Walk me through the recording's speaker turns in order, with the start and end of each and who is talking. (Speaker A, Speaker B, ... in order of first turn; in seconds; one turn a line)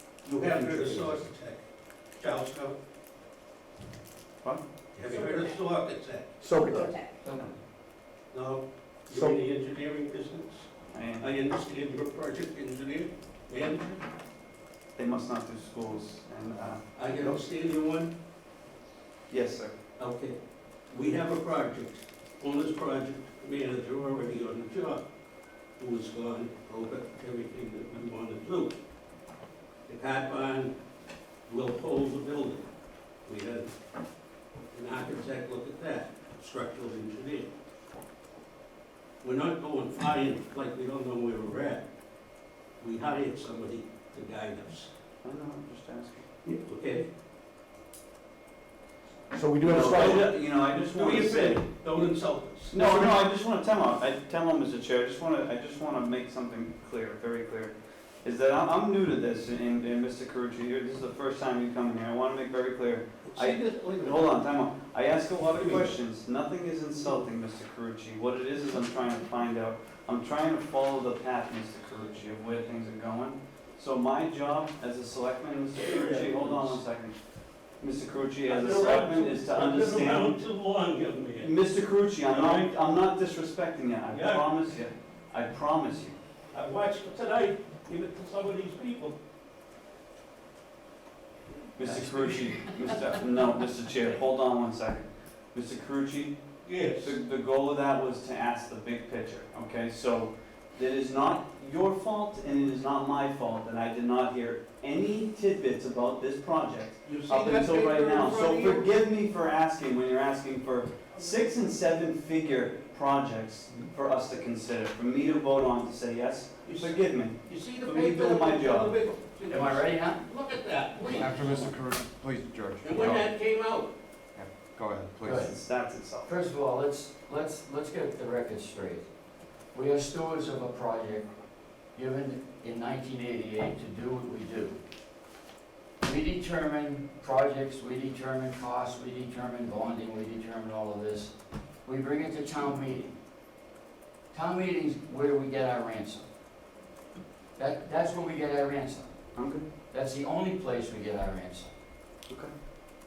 Speaker A: 0.2-1.6
Speaker B: 0.3-1.3
Speaker A: 2.2-2.8
Speaker A: 4.9-6.3
Speaker B: 5.1-5.5
Speaker B: 6.4-7.0
Speaker A: 8.3-10.7
Speaker B: 9.1-9.4
Speaker C: 10.9-11.3
Speaker A: 11.2-13.9
Speaker C: 14.9-17.4
Speaker A: 16.9-18.1
Speaker C: 19.3-19.7
Speaker A: 20.0-20.4
Speaker A: 20.9-25.1
Speaker A: 25.8-28.8
Speaker A: 29.9-30.8
Speaker A: 31.5-32.7
Speaker A: 33.2-33.7
Speaker A: 34.7-37.5
Speaker A: 39.2-41.9
Speaker A: 42.8-44.9
Speaker C: 45.2-46.2
Speaker A: 46.5-47.0
Speaker B: 49.3-50.3
Speaker C: 49.6-51.6
Speaker A: 50.8-52.8
Speaker C: 52.7-77.2
Speaker B: 52.8-53.2
Speaker A: 63.2-64.4
Speaker A: 65.5-65.9
Speaker A: 75.7-76.8
Speaker C: 77.8-80.4
Speaker A: 78.4-81.5
Speaker C: 81.4-86.2
Speaker A: 82.2-82.7
Speaker A: 84.1-84.8
Speaker A: 86.5-89.2
Speaker C: 91.8-96.4
Speaker D: 91.9-92.8
Speaker A: 96.6-97.2
Speaker C: 97.0-119.0
Speaker A: 107.0-109.0
Speaker A: 116.6-121.6
Speaker D: 119.5-120.2
Speaker E: 121.1-123.3
Speaker A: 122.8-123.9
Speaker E: 124.3-125.4
Speaker D: 125.2-125.5
Speaker C: 125.3-126.3
Speaker D: 126.2-129.1
Speaker D: 129.7-131.3
Speaker D: 131.9-134.8
Speaker D: 136.0-141.3
Speaker D: 141.8-143.1
Speaker D: 144.3-146.3
Speaker D: 147.6-149.1
Speaker C: 149.3-149.7
Speaker D: 149.9-151.7